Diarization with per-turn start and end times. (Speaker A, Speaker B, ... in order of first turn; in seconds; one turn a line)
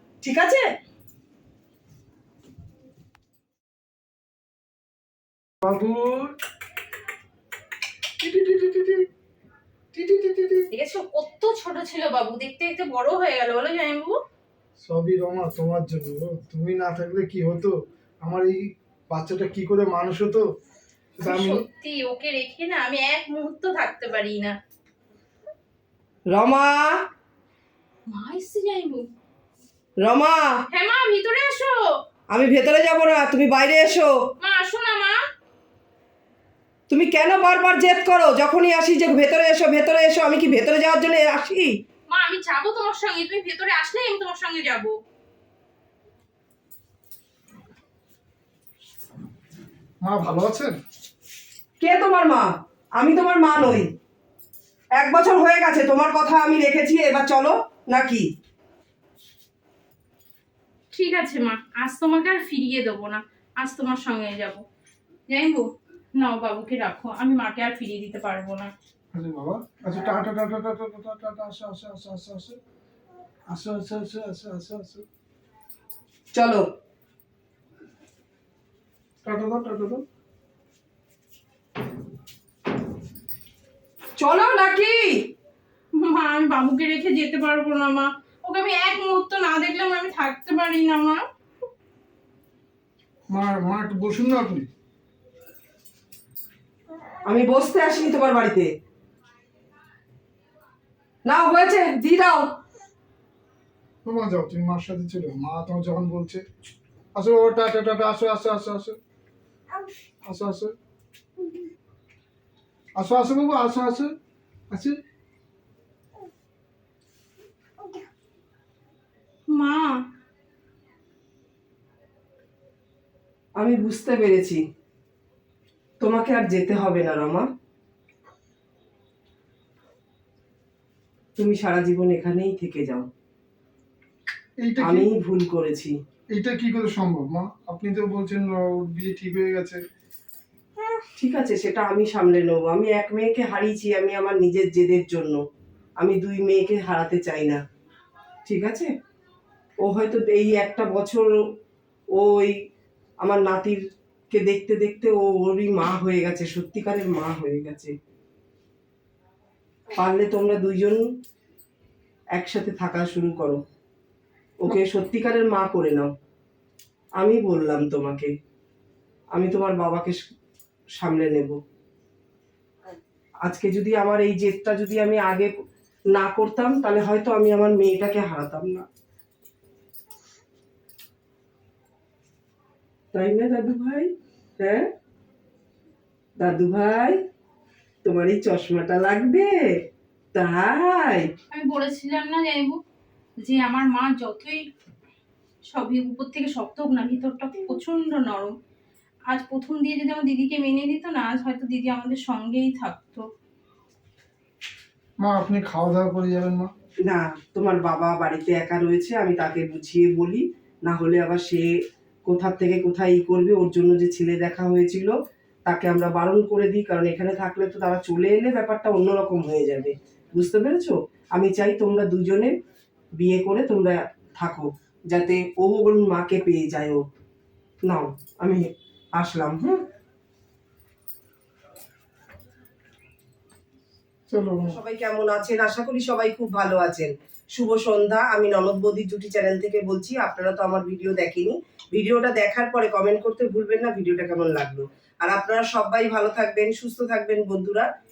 Speaker A: 0.2-0.6
Speaker B: 5.6-6.3
Speaker B: 8.2-9.1
Speaker B: 9.9-10.7
Speaker C: 10.7-14.2
Speaker B: 14.8-20.4
Speaker B: 21.1-21.6
Speaker C: 21.2-24.5
Speaker A: 26.3-26.9
Speaker C: 28.1-29.0
Speaker A: 30.0-30.5
Speaker C: 30.7-31.8
Speaker A: 32.3-34.1
Speaker C: 34.4-35.2
Speaker A: 36.9-41.7
Speaker C: 42.1-44.9
Speaker B: 50.0-50.8
Speaker A: 51.8-53.9
Speaker A: 55.0-58.2
Speaker C: 60.9-64.6
Speaker C: 65.3-68.7
Speaker B: 69.1-72.6
Speaker B: 73.5-75.0
Speaker A: 76.3-76.6
Speaker B: 79.2-80.0
Speaker A: 84.2-85.3
Speaker C: 86.0-91.2
Speaker B: 93.3-94.7
Speaker A: 97.2-98.7
Speaker A: 101.2-102.5
Speaker B: 104.0-106.4
Speaker B: 107.2-109.0
Speaker B: 110.2-110.7
Speaker B: 113.0-114.1
Speaker B: 114.7-115.0
Speaker C: 119.5-120.0
Speaker A: 123.6-124.6
Speaker A: 126.0-127.5
Speaker A: 131.4-133.1
Speaker B: 134.6-135.1
Speaker A: 134.8-135.9
Speaker B: 136.3-139.8
Speaker A: 141.0-145.4
Speaker A: 146.0-147.6
Speaker A: 148.5-148.9
Speaker A: 149.8-151.3
Speaker A: 152.1-152.5
Speaker A: 153.2-153.8
Speaker A: 154.3-157.9
Speaker A: 159.9-161.0
Speaker A: 162.3-163.6
Speaker A: 164.6-166.1
Speaker A: 167.2-168.3
Speaker A: 169.3-170.2
Speaker A: 171.0-171.6
Speaker A: 173.4-175.5
Speaker A: 176.1-178.8
Speaker A: 183.1-184.9
Speaker A: 186.4-187.2
Speaker A: 188.0-189.5
Speaker A: 190.3-191.3
Speaker C: 191.5-192.8
Speaker C: 193.4-194.6
Speaker C: 195.7-198.5
Speaker C: 199.3-203.3
Speaker B: 205.2-206.7
Speaker A: 207.1-211.7
Speaker A: 212.3-215.1
Speaker A: 215.7-222.5
Speaker A: 223.2-227.0
Speaker A: 227.9-228.6
Speaker A: 229.2-229.8
Speaker B: 234.3-234.8
Speaker A: 234.7-247.9